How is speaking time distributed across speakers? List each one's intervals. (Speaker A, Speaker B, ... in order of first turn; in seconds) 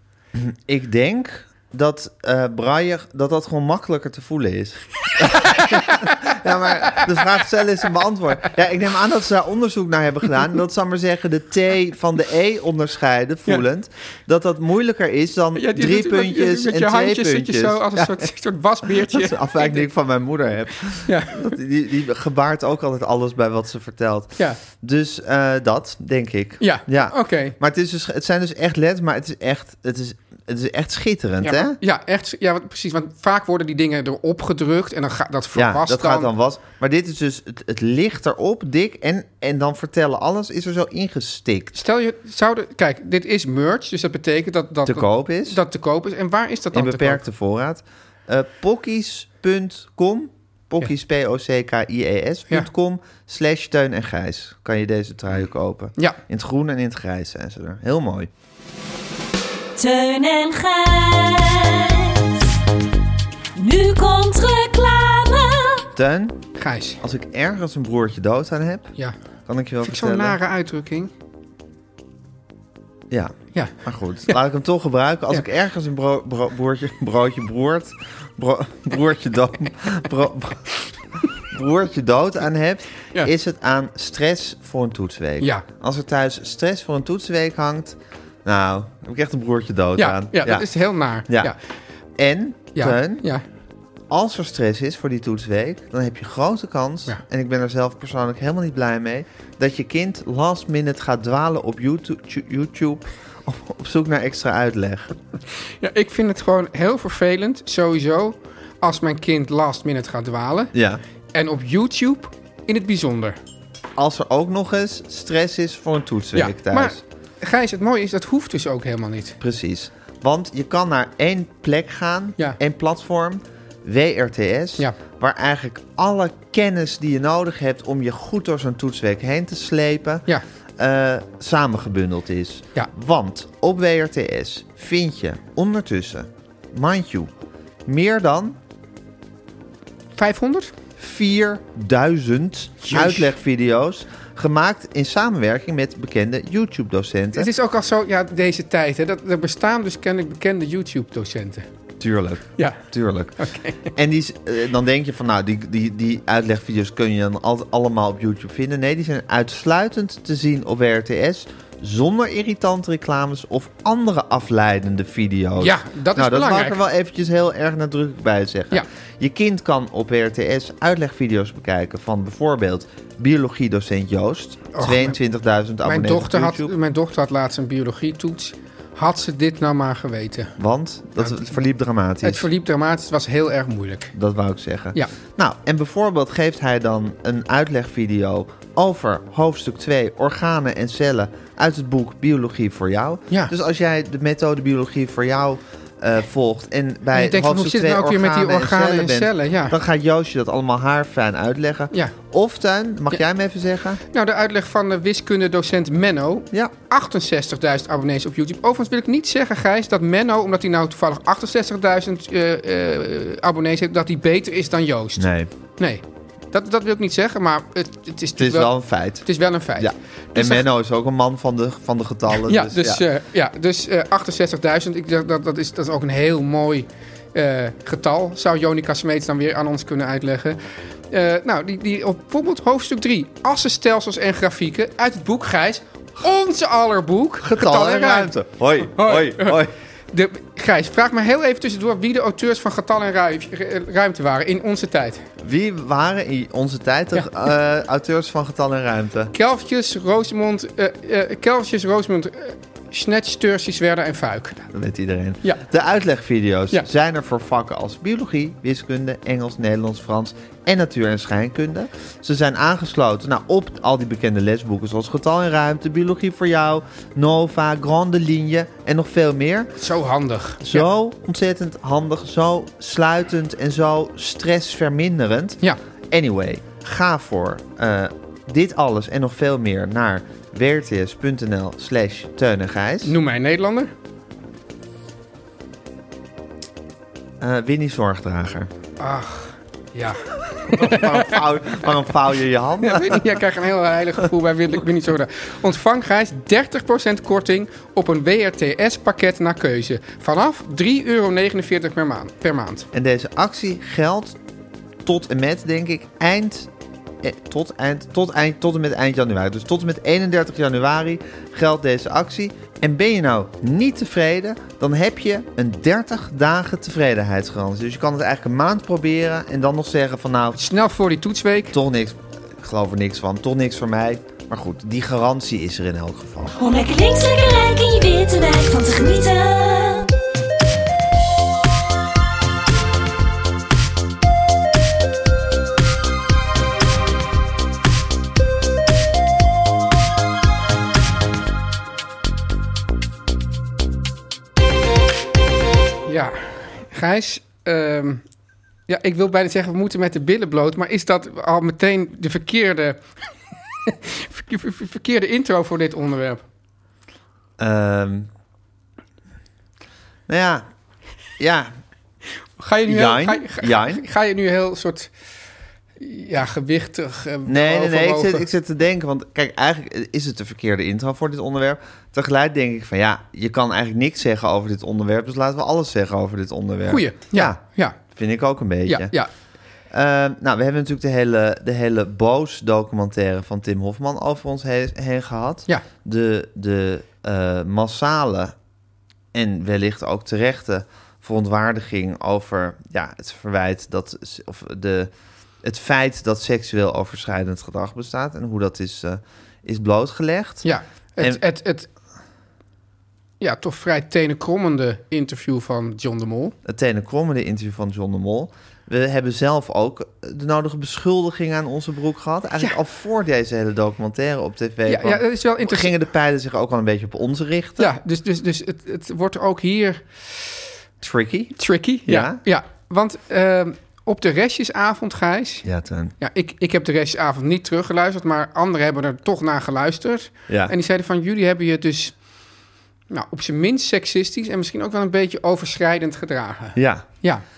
Speaker A: 0.3-18.3, 18.9-31.8, 35.5-41.8, 44.9-45.6, 46.7-58.3, 66.0-66.4, 67.0-68.9, 69.5-70.4, 73.1-80.7, 81.5-90.7, 91.3-91.5, 92.2-93.2, 94.1-105.1, 110.7-111.0, 114.0-117.0, 119.4-130.3, 130.8-137.3, 137.9-138.6, 141.0-147.5, 152.0-176.7, 180.6-182.5, 184.1-204.0, 215.2-215.5, 218.4-223.0, 237.4-239.7, 245.4-249.3, 254.7-269.7, 270.6-275.6, 276.1-283.1, 287.4-288.7, 290.7-293.4, 302.9-304.4, 305.1-306.7, 307.2-320.6, 321.7-326.6, 357.6-358.3, 360.3-360.7, 361.4-361.7, 362.9-364.0, 367.5-379.1, 379.9-388.6, 389.3-395.1, 395.6-400.6, 406.6-417.9, 421.0-422.4, 425.6-426.1, 430.5-430.7, 436.8-437.1
Speaker B: 5.3-6.2, 15.6-19.9, 21.1-21.6, 26.6-27.6, 31.4-36.3, 41.8-47.2, 66.6-67.0, 69.8-71.1, 85.4-85.7, 90.0-91.6, 92.8-93.4, 105.8-110.7, 111.3-113.4, 116.3-119.4, 140.2-140.7, 142.8-143.3, 147.4-151.7, 152.6-152.8, 153.4-153.9, 165.6-166.8, 174.7-175.2, 175.8-180.6, 182.2-184.1, 197.1-199.8, 204.1-220.6, 222.4-230.6, 231.1-245.3, 249.3-254.7, 269.8-270.9, 283.0-283.9, 289.0-291.4, 292.8-302.9, 320.6-321.8, 346.1-348.2, 348.9-353.0, 353.8-356.4, 362.6-365.1, 366.0-368.5, 376.9-378.0, 378.9-379.3, 400.6-401.9, 403.4-406.6, 414.9-415.9, 417.8-420.6, 421.6-425.6, 426.2-432.2, 433.1-437.4
Speaker C: 59.8-62.5, 63.5-65.9, 326.6-330.1